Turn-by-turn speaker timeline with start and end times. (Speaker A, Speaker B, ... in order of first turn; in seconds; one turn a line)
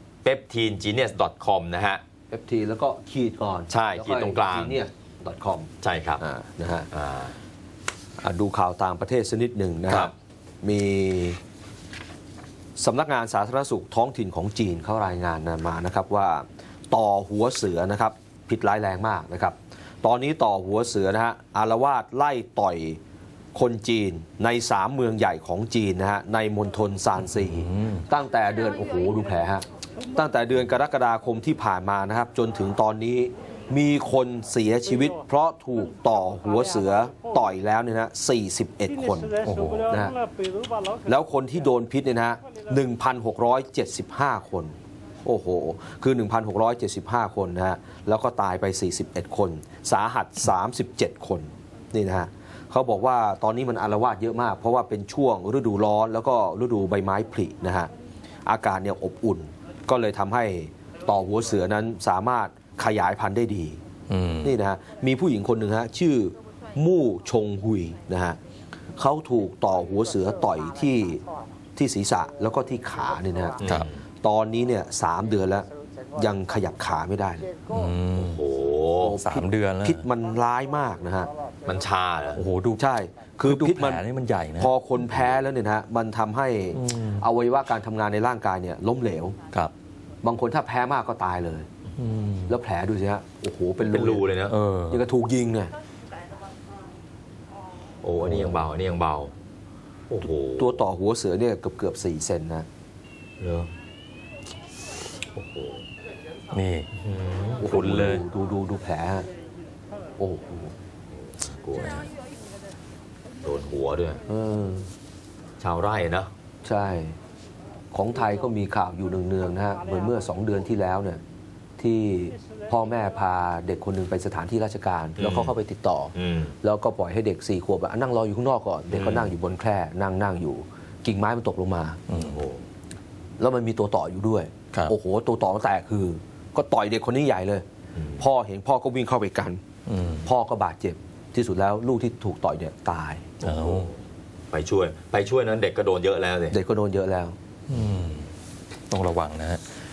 Speaker A: 0.2-2.0
Speaker B: 2.3-6.9
Speaker A: 3.7-4.8
Speaker A: 5.8-6.2
Speaker A: 6.9-7.3
Speaker B: 8.2-11.4
Speaker A: 9.9-10.1
Speaker B: 12.8-23.0
Speaker B: 23.5-40.1
Speaker C: 27.6-28.0
Speaker C: 39.4-39.9
Speaker B: 41.0-57.9
Speaker B: 58.5-63.8
Speaker C: 64.1-64.5
Speaker B: 64.4-68.4
Speaker B: 69.0-71.2
Speaker B: 71.7-73.6
Speaker A: 73.6-74.0
Speaker B: 74.2-77.5
Speaker C: 77.7-78.4
Speaker A: 78.2-79.2
Speaker B: 79.0-81.3
Speaker C: 79.2-80.0
Speaker A: 81.6-82.4
Speaker C: 82.3-82.8
Speaker B: 82.8-84.0
Speaker C: 83.4-84.7
Speaker B: 84.6-89.3
Speaker C: 86.7-87.2
Speaker B: 90.2-91.7
Speaker C: 92.0-92.5
Speaker B: 92.5-94.2
Speaker A: 93.8-94.5
Speaker C: 94.5-95.0
Speaker B: 94.9-95.7
Speaker A: 98.0-99.3
Speaker B: 98.3-98.6
Speaker A: 100.1-100.8
Speaker B: 100.6-102.7
Speaker A: 103.4-103.7
Speaker A: 105.3-105.8
Speaker C: 106.5-106.9
Speaker A: 106.9-107.7
Speaker B: 107.6-109.2
Speaker C: 107.7-108.2
Speaker B: 110.2-110.7
Speaker A: 111.6-112.1
Speaker A: 113.4-114.2
Speaker B: 114.3-114.9
Speaker A: 115.6-116.3
Speaker B: 116.6-117.2
Speaker B: 117.9-121.2
Speaker B: 121.8-132.0
Speaker A: 125.2-125.5
Speaker A: 126.1-126.5
Speaker A: 128.9-129.3
Speaker C: 132.1-132.3
Speaker A: 132.2-132.6
Speaker B: 133.4-137.7
Speaker A: 137.9-138.2
Speaker B: 138.2-139.6
Speaker C: 139.9-140.2
Speaker B: 140.2-143.3
Speaker C: 143.4-143.9
Speaker A: 143.4-143.8
Speaker A: 144.5-146.6
Speaker B: 146.5-147.3
Speaker C: 147.7-148.3
Speaker C: 148.9-149.6